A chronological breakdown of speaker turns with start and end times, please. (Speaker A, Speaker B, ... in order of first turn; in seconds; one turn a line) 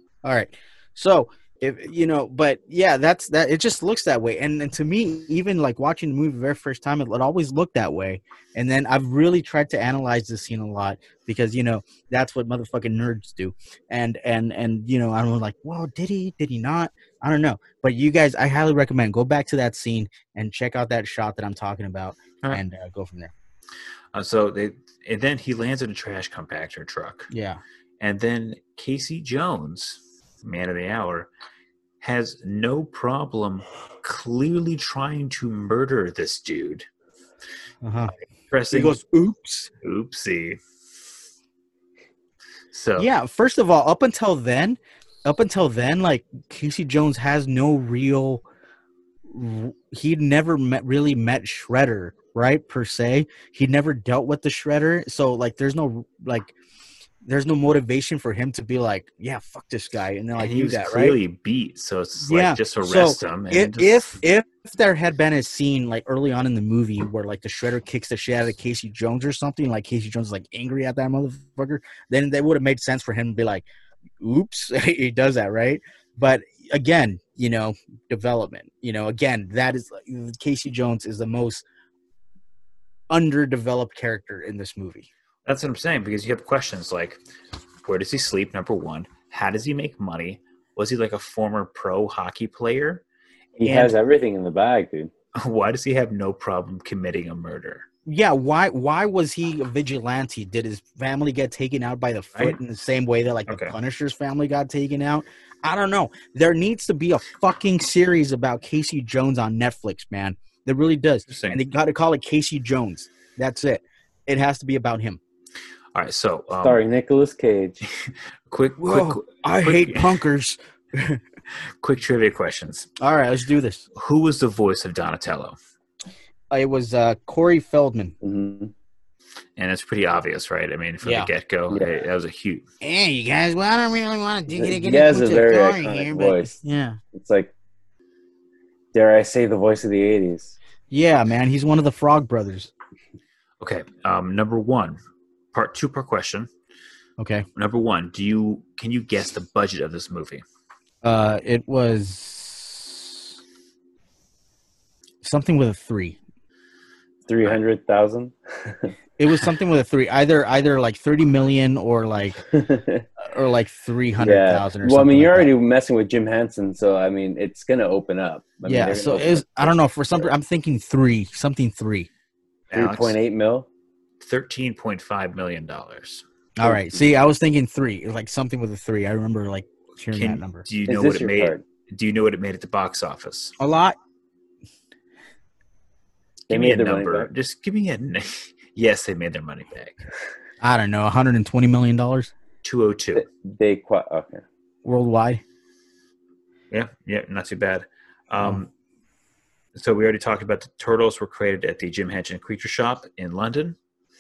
Speaker A: 0.2-23.3
Speaker B: 24.1-27.3
Speaker A: 27.3-27.6
Speaker B: 28.0-31.3
Speaker B: 32.0-36.9
Speaker A: 37.8-38.1
Speaker B: 38.5-39.0
Speaker A: 38.7-39.7
Speaker B: 39.8-40.6
Speaker B: 42.7-43.1
Speaker A: 43.0-48.5
Speaker A: 49.3-56.5
Speaker A: 57.2-61.2
Speaker B: 60.4-64.2
Speaker A: 62.2-73.7
Speaker A: 74.2-81.7
Speaker A: 83.1-85.1
Speaker B: 85.5-87.2
Speaker B: 87.8-93.0
Speaker C: 93.6-95.1
Speaker A: 93.6-94.0
Speaker B: 95.4-97.9
Speaker A: 98.1-115.2
Speaker B: 103.5-103.7
Speaker B: 111.3-111.6
Speaker B: 116.0-116.8
Speaker C: 116.6-117.8
Speaker B: 117.9-120.2
Speaker A: 118.8-121.2
Speaker B: 121.8-122.9
Speaker A: 123.0-123.8
Speaker B: 124.0-125.6
Speaker A: 126.5-128.2
Speaker C: 128.2-128.7
Speaker B: 129.6-132.7
Speaker A: 131.0-131.3
Speaker C: 131.7-132.0
Speaker A: 132.8-137.0
Speaker C: 134.5-136.6
Speaker C: 137.1-137.5
Speaker C: 138.9-140.6
Speaker A: 140.9-142.7
Speaker B: 143.6-145.0
Speaker B: 145.5-146.5
Speaker A: 147.2-147.4
Speaker B: 147.6-150.4
Speaker A: 151.0-153.3
Speaker A: 155.2-156.2
Speaker C: 157.3-158.9
Speaker A: 159.2-162.4
Speaker C: 162.5-163.1
Speaker A: 163.2-165.5
Speaker C: 164.2-170.3
Speaker A: 168.7-172.1
Speaker B: 172.7-173.2
Speaker C: 172.7-173.7
Speaker B: 174.2-176.2
Speaker A: 176.6-180.7
Speaker B: 180.1-183.6
Speaker C: 180.9-181.6
Speaker A: 183.6-184.0
Speaker B: 186.5-190.0
Speaker C: 186.5-187.3
Speaker A: 190.6-192.3
Speaker B: 192.6-193.3
Speaker C: 193.2-194.4
Speaker A: 194.8-195.4
Speaker B: 196.7-198.7
Speaker B: 199.8-203.8